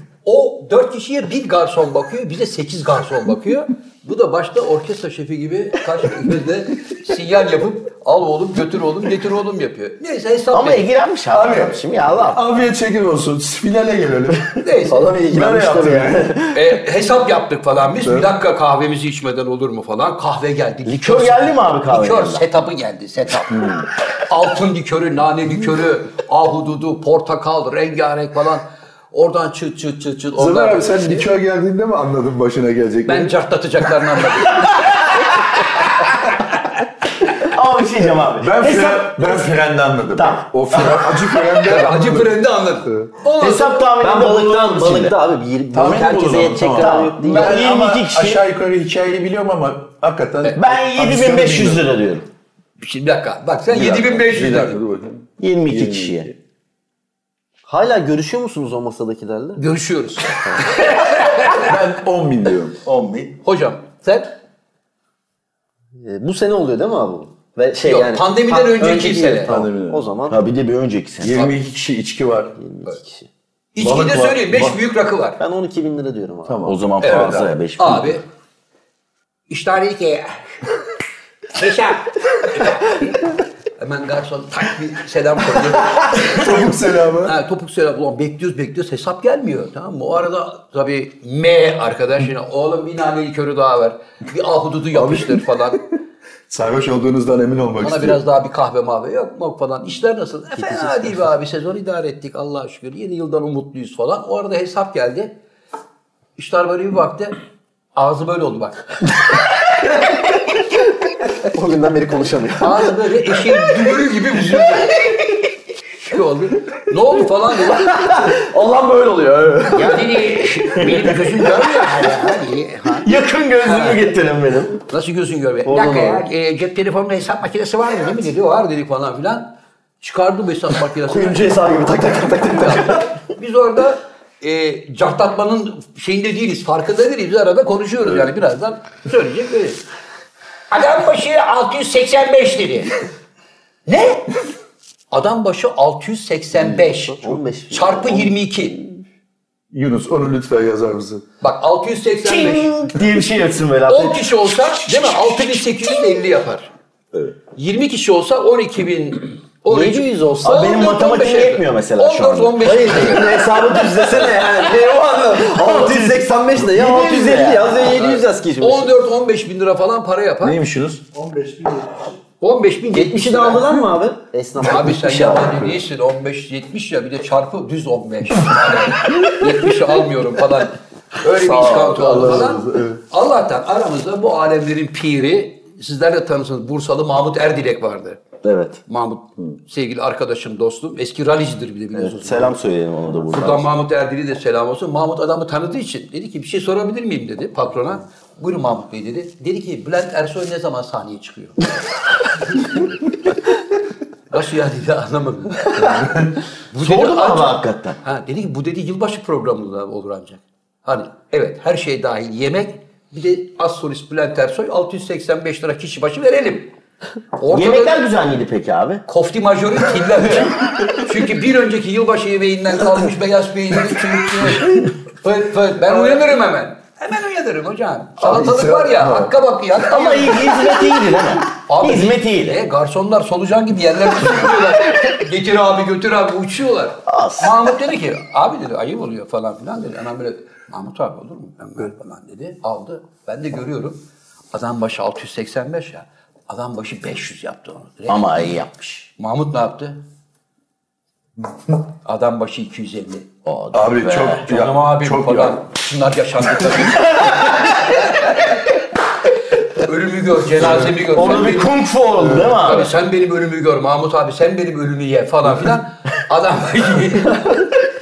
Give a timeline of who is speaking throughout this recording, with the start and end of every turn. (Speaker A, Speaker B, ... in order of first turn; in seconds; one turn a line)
Speaker A: 0.2-10.9
Speaker B: 10.5-12.4
Speaker C: 11.3-16.4
Speaker A: 14.6-15.1
Speaker D: 15.1-16.2
Speaker A: 16.5-31.3
Speaker C: 18.0-18.3
Speaker B: 20.8-22.4
Speaker C: 23.5-23.8
Speaker C: 30.4-33.3
Speaker A: 33.0-35.3
Speaker B: 37.5-39.5
Speaker C: 38.4-43.1
Speaker B: 40.1-41.4
Speaker A: 41.6-43.9
Speaker B: 43.4-45.1
Speaker D: 44.0-47.5
Speaker C: 45.7-51.8
Speaker B: 45.9-48.4
Speaker B: 50.5-52.2
Speaker A: 52.8-54.8
Speaker C: 53.7-56.4
Speaker B: 55.4-56.3
Speaker D: 57.7-59.6
Speaker A: 59.6-61.7
Speaker C: 61.5-62.8
Speaker B: 62.8-63.4
Speaker A: 63.4-64.3
Speaker D: 66.0-70.4
Speaker A: 67.8-69.6
Speaker C: 69.4-70.0
Speaker B: 70.3-71.5
Speaker C: 71.2-72.6
Speaker D: 72.6-73.3
Speaker A: 73.7-75.4
Speaker C: 73.8-74.8
Speaker D: 75.4-76.6
Speaker C: 76.5-77.5
Speaker B: 76.6-78.2
Speaker A: 77.0-78.2
Speaker A: 79.5-80.4
Speaker A: 81.5-86.7
Speaker C: 86.1-87.3
Speaker A: 87.2-95.8
Speaker C: 94.9-95.7
Speaker C: 96.5-98.2
Speaker A: 97.8-105.3
Speaker A: 106.3-107.4
Speaker A: 107.9-109.1
Speaker D: 111.5-112.8
Speaker A: 112.6-115.0
Speaker A: 116.0-117.9
Speaker C: 117.8-120.0
Speaker A: 119.7-124.0
Speaker B: 120.7-122.2
Speaker B: 122.8-124.8
Speaker A: 124.9-139.8
Speaker D: 125.7-126.2
Speaker B: 131.1-132.9
Speaker A: 140.7-143.0
Speaker A: 143.8-144.3
Speaker A: 145.1-148.8
Speaker D: 147.2-148.3
Speaker C: 149.7-151.2
Speaker A: 151.4-152.7
Speaker B: 152.2-154.3
Speaker A: 153.9-156.7
Speaker A: 157.5-163.4
Speaker D: 159.7-160.4
Speaker B: 160.4-164.7
Speaker D: 162.8-168.9
Speaker B: 165.3-168.2
Speaker A: 167.8-170.6
Speaker C: 170.4-171.0
Speaker A: 172.4-173.8
Speaker D: 172.9-175.8
Speaker A: 174.6-188.2
Speaker C: 181.4-183.0
Speaker B: 188.4-188.8
Speaker A: 188.9-192.6
Speaker B: 191.9-193.7
Speaker A: 193.3-201.8
Speaker A: 202.5-202.8
Speaker A: 204.3-216.7
Speaker B: 205.8-206.1
Speaker B: 206.7-208.0
Speaker A: 217.4-218.0
Speaker B: 217.5-219.0
Speaker A: 219.1-230.8
Speaker C: 228.3-229.3
Speaker B: 229.8-232.6
Speaker A: 231.7-244.0
Speaker B: 237.1-237.7
Speaker A: 244.5-250.0
Speaker B: 248.1-249.0
Speaker A: 252.0-253.3
Speaker B: 253.4-254.4
Speaker C: 253.7-255.6
Speaker A: 254.3-258.6
Speaker A: 259.8-261.8
Speaker C: 260.6-260.9
Speaker B: 260.6-262.9
Speaker C: 262.2-262.7
Speaker A: 262.6-267.6